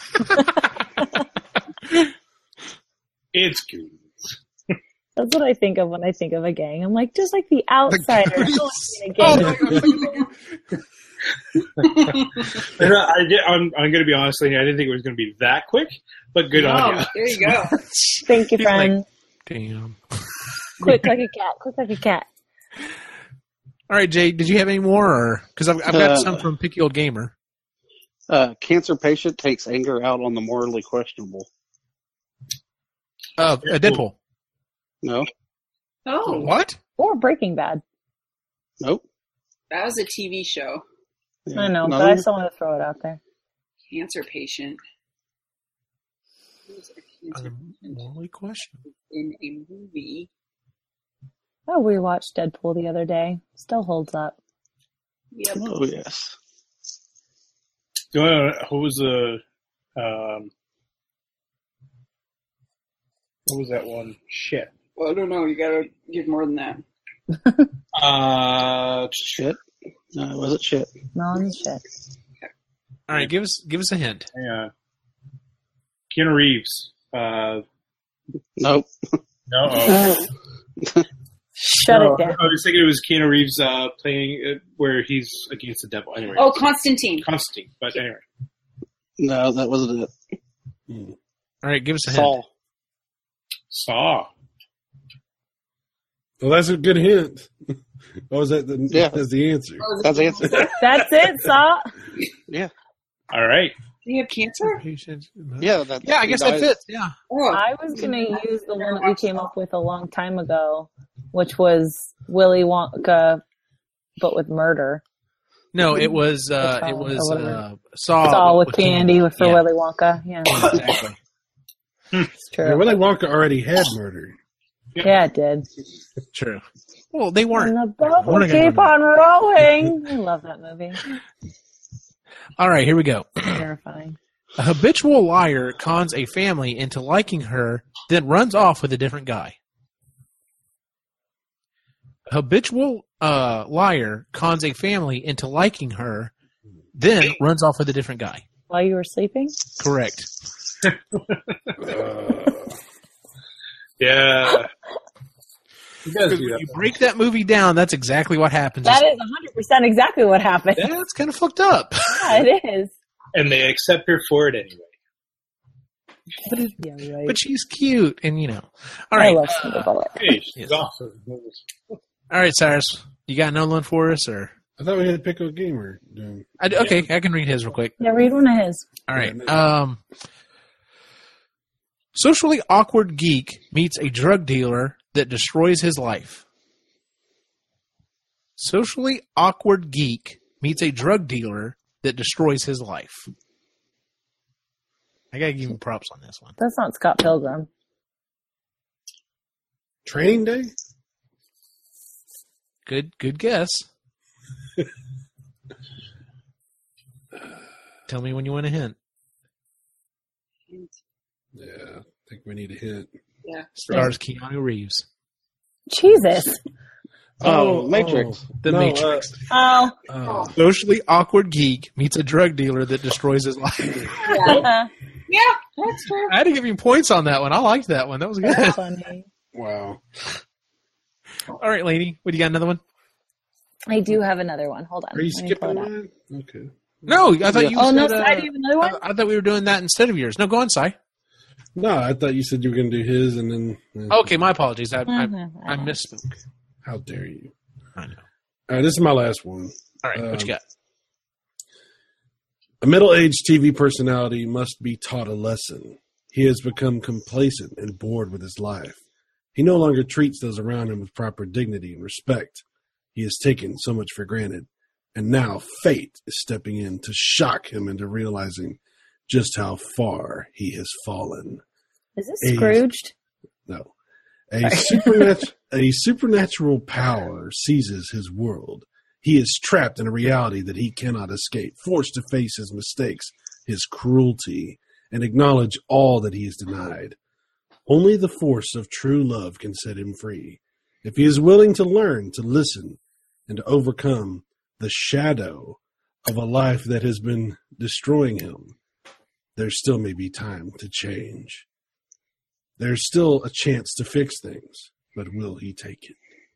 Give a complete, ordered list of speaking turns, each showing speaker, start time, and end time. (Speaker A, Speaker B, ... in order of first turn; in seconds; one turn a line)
Speaker A: 0.2-1.2
Speaker B: 3.3-4.4
Speaker A: 5.2-9.9
Speaker C: 8.2-10.1
Speaker D: 9.3-10.3
Speaker D: 11.8-12.6
Speaker B: 11.8-17.7
Speaker D: 16.5-17.8
Speaker A: 18.2-19.1
Speaker C: 18.6-18.9
Speaker C: 19.5-20.0
Speaker A: 20.8-22.3
Speaker C: 23.9-27.3
Speaker E: 25.9-26.5
Speaker E: 28.3-31.5
Speaker C: 33.4-34.2
Speaker B: 33.6-34.0
Speaker E: 35.0-35.3
Speaker D: 36.1-36.5
Speaker C: 36.3-36.8
Speaker A: 37.0-37.8
Speaker D: 39.7-40.8
Speaker E: 41.5-42.2
Speaker A: 41.5-43.2
Speaker D: 43.9-44.8
Speaker D: 46.7-48.0
Speaker C: 47.3-48.8
Speaker D: 49.1-50.3
Speaker A: 51.7-54.4
Speaker D: 55.3-55.7
Speaker E: 55.5-56.4
Speaker B: 58.1-59.4
Speaker B: 60.0-60.5
Speaker B: 63.5-64.7
Speaker D: 65.0-66.8
Speaker B: 67.9-69.4
Speaker E: 69.2-69.6
Speaker E: 70.1-70.9
Speaker A: 71.2-71.8
Speaker C: 73.1-74.3
Speaker B: 74.3-74.7
Speaker B: 76.1-77.6
Speaker E: 78.6-78.9
Speaker B: 79.5-80.2
Speaker E: 79.8-80.2
Speaker A: 81.6-82.4
Speaker B: 81.8-86.7
Speaker D: 86.4-87.3
Speaker B: 87.2-88.2
Speaker E: 89.2-90.1
Speaker F: 90.9-91.2
Speaker C: 91.6-92.4
Speaker E: 92.0-92.5
Speaker B: 93.7-94.3
Speaker F: 96.4-97.8
Speaker F: 98.3-100.7
Speaker E: 98.9-99.2
Speaker D: 99.8-100.8
Speaker E: 100.0-100.7
Speaker A: 100.8-101.9
Speaker B: 103.3-103.8
Speaker D: 104.0-104.8
Speaker C: 104.7-107.1
Speaker E: 105.6-106.7
Speaker D: 107.3-109.5
Speaker A: 107.5-113.4
Speaker A: 114.2-115.0
Speaker C: 115.7-119.7
Speaker A: 115.9-117.6
Speaker A: 118.2-120.6
Speaker C: 120.5-121.2
Speaker A: 122.5-122.9
Speaker F: 122.6-124.4
Speaker A: 125.0-125.7
Speaker C: 126.3-128.9
Speaker A: 127.5-131.0
Speaker C: 132.6-133.6
Speaker A: 133.5-134.2
Speaker C: 134.6-139.6
Speaker C: 142.3-146.3
Speaker C: 146.9-148.4
Speaker A: 148.7-149.6
Speaker C: 149.8-150.3
Speaker B: 150.8-151.4
Speaker F: 151.8-152.7
Speaker B: 154.0-154.7
Speaker B: 156.1-156.8
Speaker C: 156.3-159.1
Speaker A: 158.8-160.9
Speaker C: 160.8-162.4
Speaker A: 162.1-162.9
Speaker B: 163.3-164.9
Speaker C: 166.5-169.9
Speaker A: 166.5-167.4
Speaker A: 169.2-170.2
Speaker B: 170.2-171.6
Speaker C: 172.3-174.5
Speaker F: 174.8-176.5
Speaker C: 176.6-177.9
Speaker A: 178.0-178.9
Speaker C: 179.1-180.0
Speaker F: 179.2-179.7
Speaker C: 182.1-186.4
Speaker C: 188.6-193.3
Speaker C: 195.3-196.6
Speaker A: 196.6-197.7
Speaker F: 200.1-200.7
Speaker C: 202.9-203.9
Speaker C: 208.1-209.0
Speaker F: 211.6-213.1
Speaker C: 213.8-215.1
Speaker A: 215.9-216.6
Speaker F: 217.4-219.3
Speaker E: 217.4-218.4
Speaker C: 218.6-219.4
Speaker A: 219.5-219.9
Speaker F: 220.1-220.6
Speaker C: 220.6-224.6
Speaker D: 224.2-224.7
Speaker A: 224.4-224.9
Speaker D: 225.3-226.4
Speaker C: 226.3-228.8
Speaker A: 228.4-229.3
Speaker F: 229.5-230.0
Speaker C: 231.6-232.8
Speaker A: 233.9-235.9
Speaker F: 235.1-237.6
Speaker C: 237.1-240.9
Speaker E: 237.5-237.8
Speaker A: 237.8-239.0
Speaker F: 241.8-244.3
Speaker C: 244.1-246.3
Speaker A: 245.1-245.9
Speaker F: 246.8-247.5
Speaker C: 248.0-248.2
Speaker F: 248.7-250.5
Speaker C: 250.0-250.6
Speaker F: 252.8-259.0
Speaker F: 259.6-262.6
Speaker F: 263.1-271.6
Speaker A: 272.2-273.1
Speaker F: 272.4-272.9
Speaker F: 273.7-273.9
Speaker F: 274.5-287.2
Speaker A: 274.6-275.4
Speaker F: 287.9-298.8
Speaker F: 299.6-301.7
Speaker F: 302.8-306.2